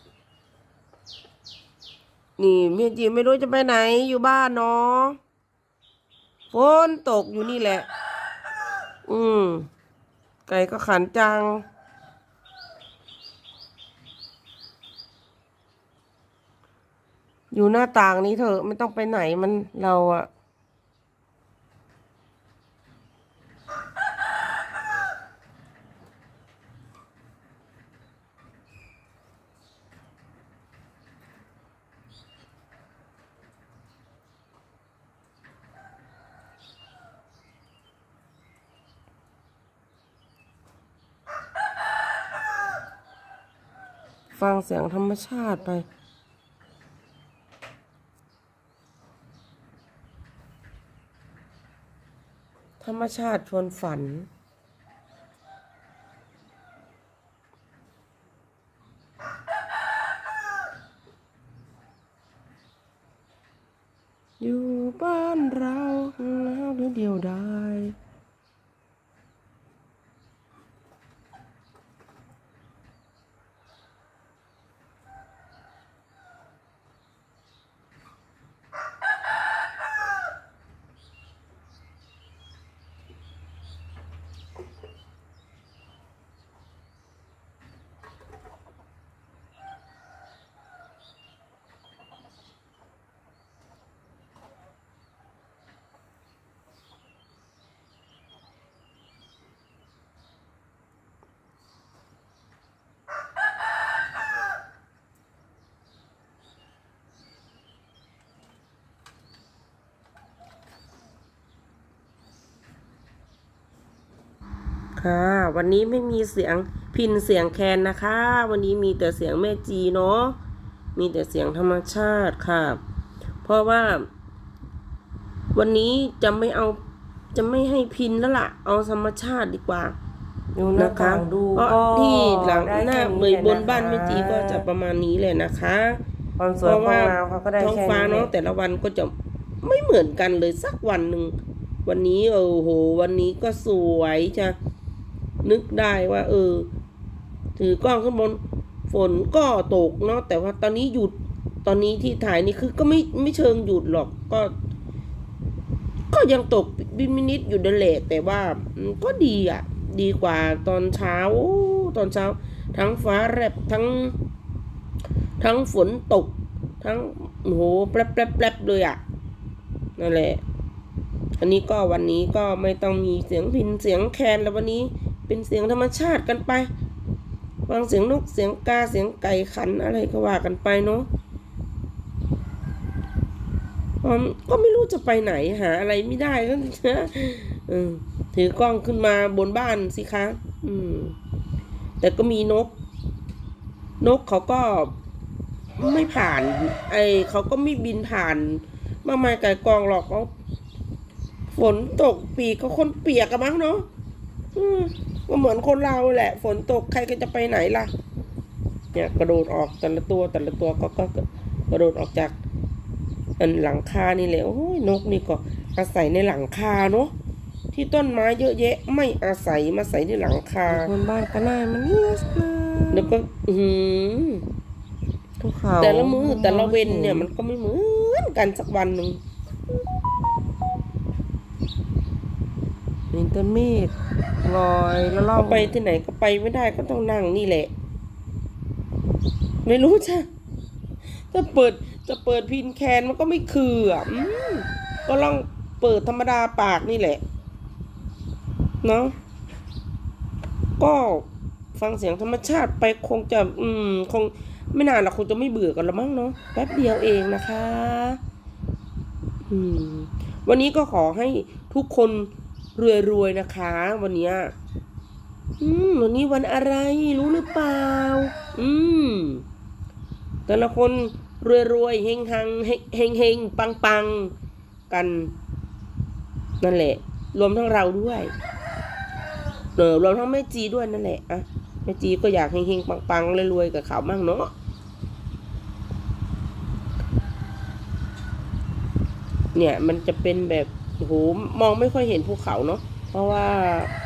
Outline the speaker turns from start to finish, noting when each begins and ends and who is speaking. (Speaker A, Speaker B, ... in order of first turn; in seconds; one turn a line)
Speaker A: 2.4-5.2
Speaker A: 6.5-7.9
Speaker A: 9.1-9.7
Speaker A: 10.5-11.7
Speaker A: 17.5-20.3
Speaker A: 44.4-45.9
Speaker A: 52.8-54.3
Speaker A: 64.4-68.0
Speaker A: 115.0-120.4
Speaker A: 121.0-122.8
Speaker A: 123.4-124.1
Speaker A: 125.5-126.8
Speaker A: 127.3-130.0
Speaker B: 130.6-134.7
Speaker A: 130.8-136.0
Speaker B: 136.4-138.3
Speaker A: 136.6-144.6
Speaker A: 145.4-146.7
Speaker A: 147.6-154.5
Speaker A: 156.1-164.2
Speaker A: 165.4-169.0
Speaker A: 170.0-170.4
Speaker A: 171.4-176.7
Speaker A: 177.7-181.1
Speaker A: 184.0-191.2
Speaker A: 192.0-192.8
Speaker A: 194.0-194.9
Speaker A: 195.8-200.3
Speaker A: 201.5-203.9
Speaker A: 204.5-207.9
Speaker A: 208.9-212.4
Speaker A: 213.4-217.1
Speaker A: 217.7-220.9
Speaker B: 220.7-223.2
Speaker A: 222.9-224.4
Speaker B: 225.4-227.3
Speaker A: 225.8-229.2
Speaker B: 233.1-235.8
Speaker A: 235.3-237.7
Speaker A: 239.7-240.3
Speaker A: 241.3-247.2
Speaker A: 248.8-249.2
Speaker A: 250.8-258.2
Speaker A: 259.5-264.5
Speaker A: 265.6-269.4
Speaker A: 270.5-274.3
Speaker A: 274.9-275.3
Speaker A: 276.6-278.3
Speaker A: 279.8-284.5
Speaker A: 289.5-293.9